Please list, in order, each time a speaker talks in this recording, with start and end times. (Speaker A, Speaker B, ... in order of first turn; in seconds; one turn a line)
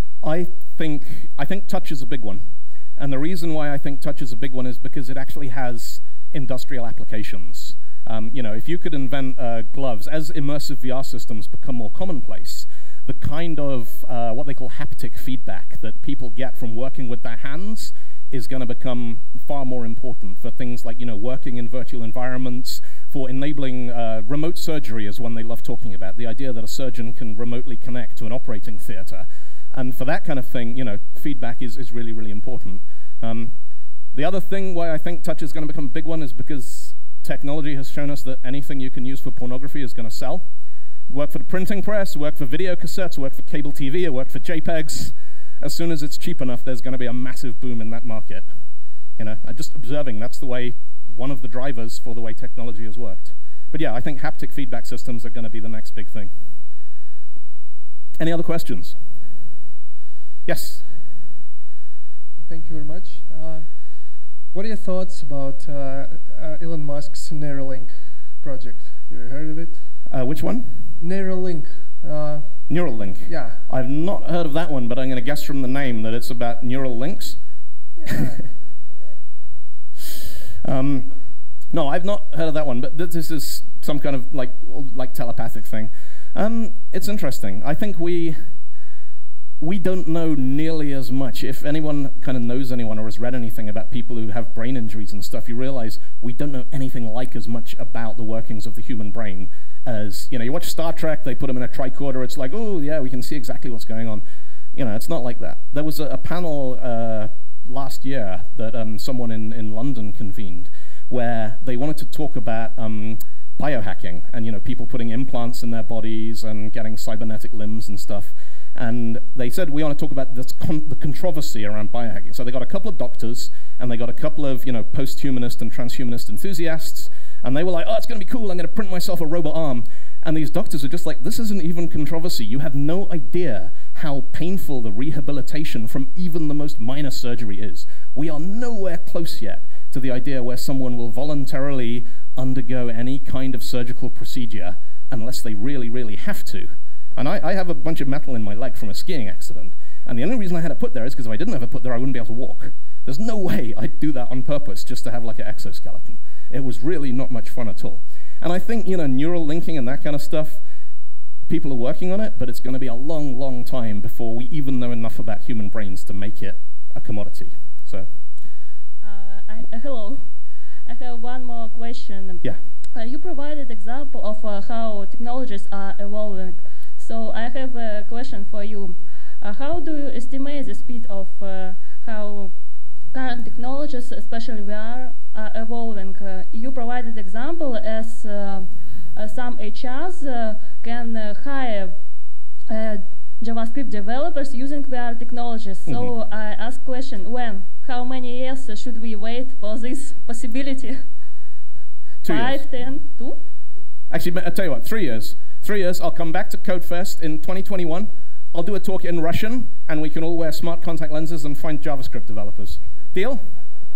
Speaker A: 0.2-33.5
Speaker A: 34.1-40.5
Speaker A: 41.1-48.5
Speaker A: 49.2-56.3
Speaker A: 58.2-59.0
Speaker A: 60.5-60.9
Speaker B: 62.5-63.7
Speaker B: 64.5-69.8
Speaker A: 70.1-70.9
Speaker B: 71.0-72.5
Speaker A: 72.7-77.4
Speaker B: 73.3-73.6
Speaker B: 78.0-78.4
Speaker A: 80.6-81.2
Speaker A: 81.7-88.4
Speaker A: 89.6-104.2
Speaker A: 104.8-160.6
Speaker A: 161.5-168.1
Speaker C: 169.0-170.3
Speaker C: 170.9-182.5
Speaker C: 183.1-192.0
Speaker C: 192.7-201.0
Speaker A: 195.9-196.1
Speaker A: 202.2-202.7
Speaker C: 202.2-203.4
Speaker A: 204.1-213.4